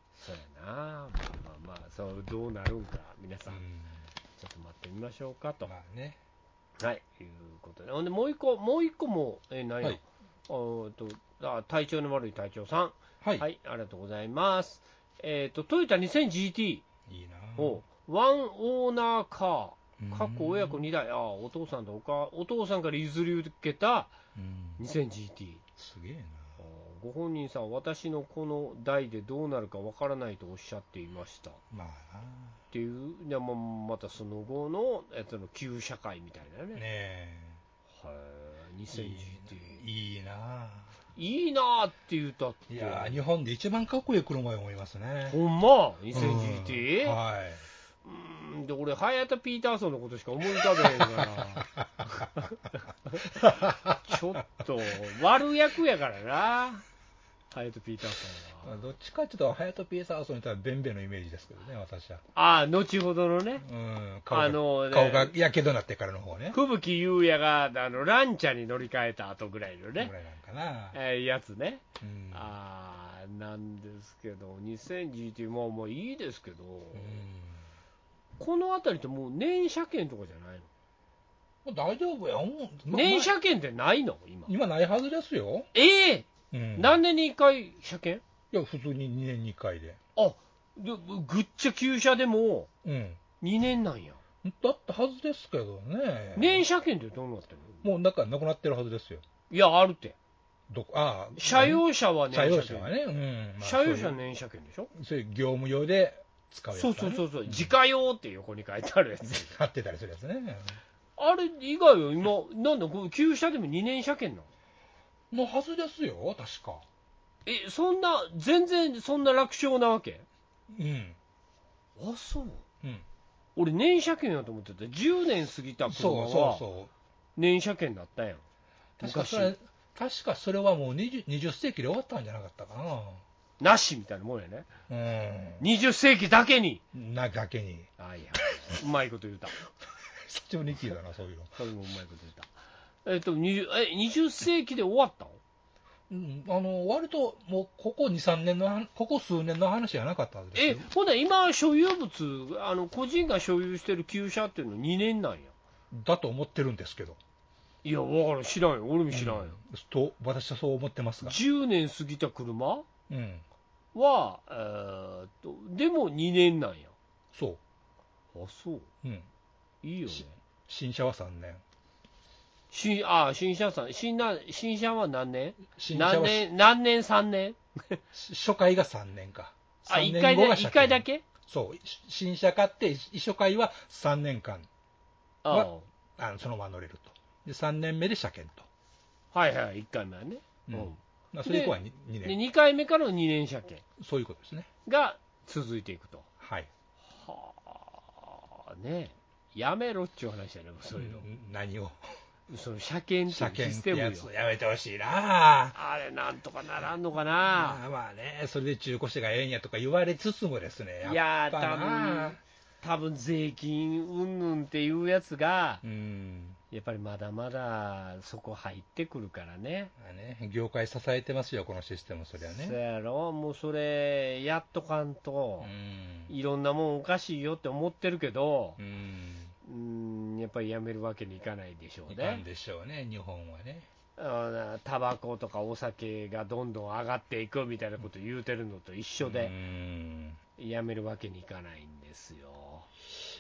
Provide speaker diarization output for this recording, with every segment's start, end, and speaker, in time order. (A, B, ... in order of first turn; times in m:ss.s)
0:00.2-0:03.6 A
0:03.5-0:04.0 B
0:04.4-0:05.7 A
0:05.6-0:06.2 B
0:06.8-0:16.8 A
0:17.1-0:17.8 B
0:17.6-0:24.2 A
0:20.0-0:20.8 B
0:24.4-0:24.8 B
0:24.8-0:25.6 A
0:25.8-0:26.6 B
0:26.6-0:31.6 A
0:31.7-0:32.6 B
0:32.7-0:36.8 A
0:36.7-0:37.6 B
0:37.9-0:39.8 A
0:38.9-0:40.9 B
0:41.2-0:43.2 A
0:42.7-0:45.4 B
0:45.3-0:47.2 A
0:46.1-0:47.6 B
0:48.0-0:52.5 A
0:50.6-0:52.2 B
0:53.1-0:56.8 A
0:53.4-0:54.0 B
0:57.5-0:58.8 A
0:58.6-1:02.2 B
1:02.4-1:03.6 A
1:03.6-1:06.6 B
1:04.3-1:05.3 A
1:06.5-1:10.1 A
1:10.0-1:11.0 B
1:10.9-1:17.2 A
1:12.0-1:12.5 B
1:17.0-1:17.6 B
1:18.4-1:20.7 A
1:21.6-1:23.3 B
1:22.9-1:24.5 A
1:24.5-1:25.7 B
1:25.7-1:28.2 A
1:26.5-1:27.0 B
1:28.5-1:30.0 B
1:30.2-1:32.7 A
1:32.8-1:33.2 B
1:33.4-1:34.2 A
1:34.4-1:36.7 B
1:36.4-1:37.9 A
1:37.8-1:39.2 B
1:39.5-1:40.2 A
1:40.7-1:44.2 B
1:41.4-1:42.9 A
1:43.6-1:44.9 A
1:44.9-1:47.7 B
1:46.7-1:49.6 A
1:49.2-1:50.8 B
1:51.2-1:54.5 A
1:55.3-1:56.8 B
1:57.5-2:00.3 A
2:00.7-2:01.2 B
2:02.0-2:02.6 A
2:03.6-2:06.6 A
2:05.9-2:06.9 B
2:07.4-2:08.4 A
2:09.0-2:13.2 B
2:09.0-2:09.5 A
2:13.6-2:14.7 A
2:14.9-2:15.6 B
2:15.6-2:16.8 A
2:16.9-2:17.9 B
2:18.0-2:19.6 A
2:20.1-2:21.6 B
2:21.6-2:22.5 A
2:23.0-2:25.4 A
2:26.1-2:30.9 B
2:30.6-2:35.6 A
2:35.9-2:37.2 B
2:37.8-2:39.6 A
2:39.1-2:41.4 B
2:41.2-2:42.9 A
2:43.1-2:43.4 B
2:43.9-2:47.0 A
2:47.3-2:47.6 B
2:48.3-2:48.9 A
2:49.0-2:49.3 B
2:49.8-2:50.4 A
2:50.1-2:51.6 B
2:52.7-2:58.0 A
2:55.8-2:56.5 B
2:58.1-3:04.7 B
2:59.9-3:01.2 A
3:05.4-3:05.9 A
3:05.5-3:08.7 B
3:09.3-3:13.8 A
3:10.7-3:12.4 B
3:14.0-3:14.7 B
3:14.9-3:16.3 A
3:16.4-3:16.7 B
3:17.1-3:21.3 A
3:21.0-3:22.0 B
3:22.5-3:24.3 A
3:23.3-3:25.8 B
3:25.8-3:27.8 A
3:27.4-3:32.4 B
3:31.0-3:35.8 A
3:35.8-3:36.6 B
3:36.7-3:39.9 A
3:40.0-3:42.8 B
3:42.4-3:45.7 A
3:45.6-3:46.3 B
3:46.3-3:48.8 A
3:48.8-3:49.5 B
3:49.6-3:52.4 A
3:52.1-3:53.9 B
3:54.2-3:59.5 A
3:59.2-4:00.4 B
4:00.6-4:02.9 A